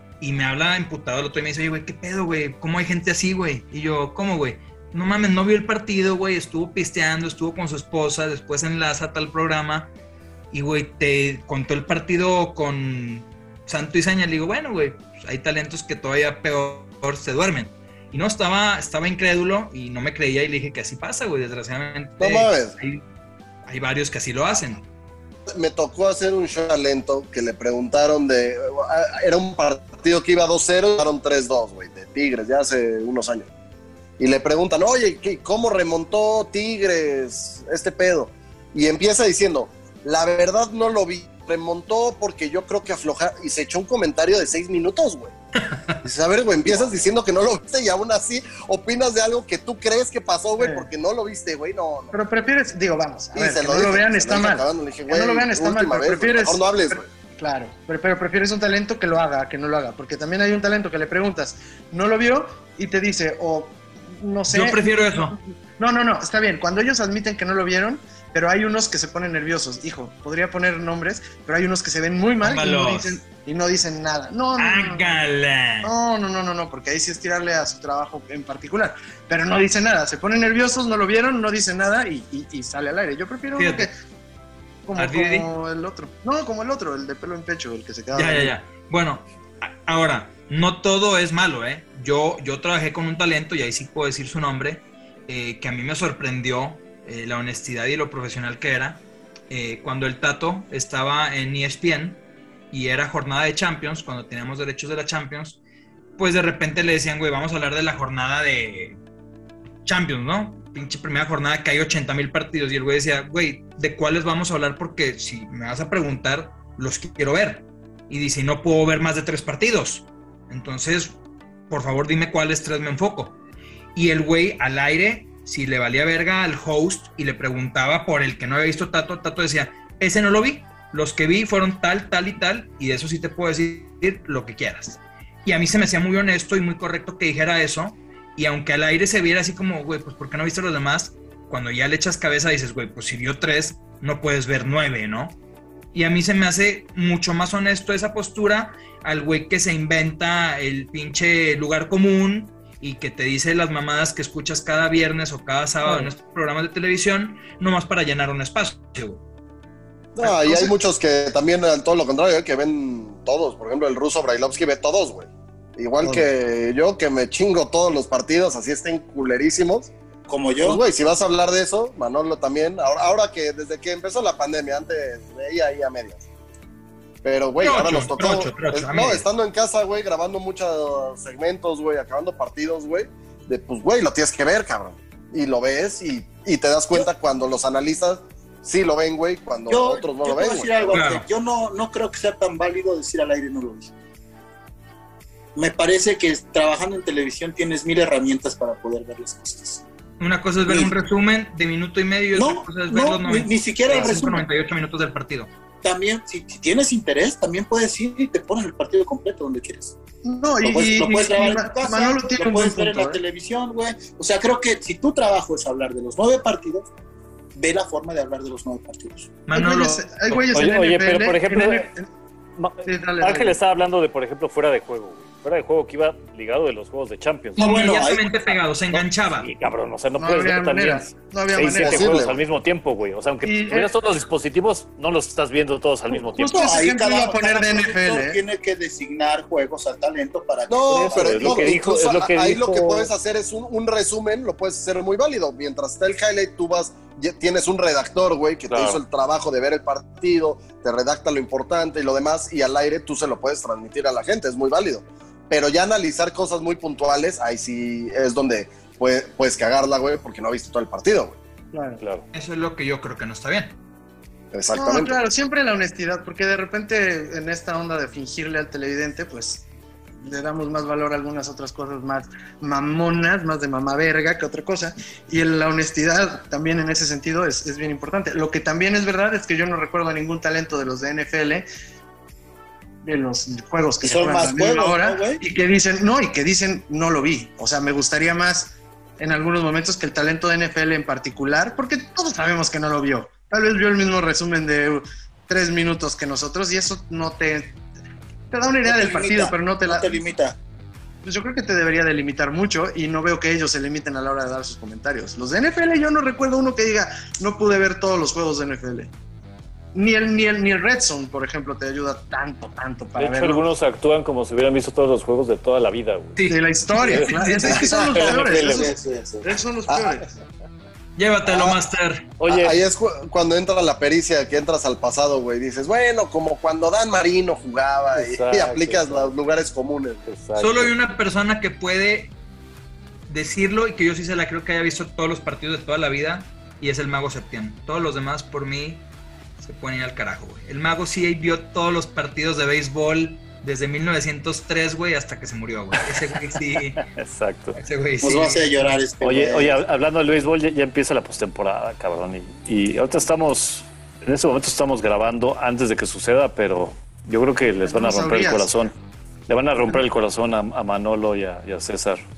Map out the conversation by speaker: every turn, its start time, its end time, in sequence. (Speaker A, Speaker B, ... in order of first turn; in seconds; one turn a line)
Speaker A: 0.2-9.9
Speaker A: 10.5-23.0
Speaker B: 22.2-22.8
Speaker A: 23.7-24.8
Speaker B: 25.5-33.5
Speaker B: 34.2-45.4
Speaker B: 46.0-52.1
Speaker C: 50.6-50.9
Speaker C: 52.1-75.1
Speaker B: 53.4-57.1
Speaker A: 64.5-65.4
Speaker A: 72.4-73.2
Speaker A: 74.6-75.9
Speaker C: 75.8-83.9
Speaker A: 83.5-83.9
Speaker C: 84.9-88.5
Speaker A: 85.0-85.5
Speaker A: 88.1-105.6
Speaker A: 106.2-109.0
Speaker A: 109.8-121.2
Speaker A: 121.7-123.4
Speaker A: 124.0-145.4
Speaker A: 145.9-159.2
Speaker B: 160.2-169.9
Speaker C: 160.2-160.7
Speaker C: 166.0-166.3
Speaker D: 170.3-170.8
Speaker B: 170.6-176.2
Speaker B: 177.2-191.0
Speaker A: 177.6-179.2
Speaker D: 189.7-193.9
Speaker A: 190.9-191.3
Speaker D: 195.6-199.8
Speaker A: 200.2-205.5
Speaker D: 200.7-201.0
Speaker D: 202.3-204.5
Speaker D: 205.8-209.9
Speaker C: 210.2-213.2
Speaker D: 210.6-216.9
Speaker D: 217.6-219.3
Speaker A: 219.5-220.5
Speaker C: 219.5-222.1
Speaker E: 220.5-221.9
Speaker E: 222.6-227.7
Speaker C: 222.8-223.6
Speaker D: 227.6-228.4
Speaker A: 227.6-229.5
Speaker E: 228.9-236.6
Speaker C: 230.2-232.1
Speaker B: 231.8-232.4
Speaker C: 233.4-233.9
Speaker C: 236.3-238.4
Speaker D: 236.4-241.7
Speaker B: 240.7-261.4
Speaker E: 241.0-243.1
Speaker E: 248.7-249.0
Speaker C: 261.7-262.0
Speaker E: 262.0-262.3
Speaker A: 262.3-263.8
Speaker B: 264.5-265.2
Speaker C: 264.7-269.6
Speaker C: 270.2-281.7
Speaker C: 283.0-297.8
Speaker D: 284.0-285.4
Speaker C: 298.5-300.2
Speaker D: 298.8-300.6
Speaker C: 301.2-309.1
Speaker C: 309.9-313.6
Speaker E: 313.2-316.4
Speaker A: 316.4-318.2
Speaker C: 316.5-320.3
Speaker E: 317.1-318.9
Speaker D: 318.3-319.5
Speaker B: 319.9-320.2
Speaker A: 321.2-322.2
Speaker B: 321.4-321.8
Speaker E: 322.4-322.8
Speaker B: 322.4-330.2
Speaker E: 328.1-329.3
Speaker E: 330.3-330.9
Speaker A: 330.6-332.3
Speaker A: 333.3-339.1
Speaker A: 339.6-347.0
Speaker E: 347.2-347.8
Speaker A: 347.8-349.0
Speaker D: 348.2-349.8
Speaker E: 349.2-358.9
Speaker C: 357.8-358.9
Speaker E: 359.5-362.2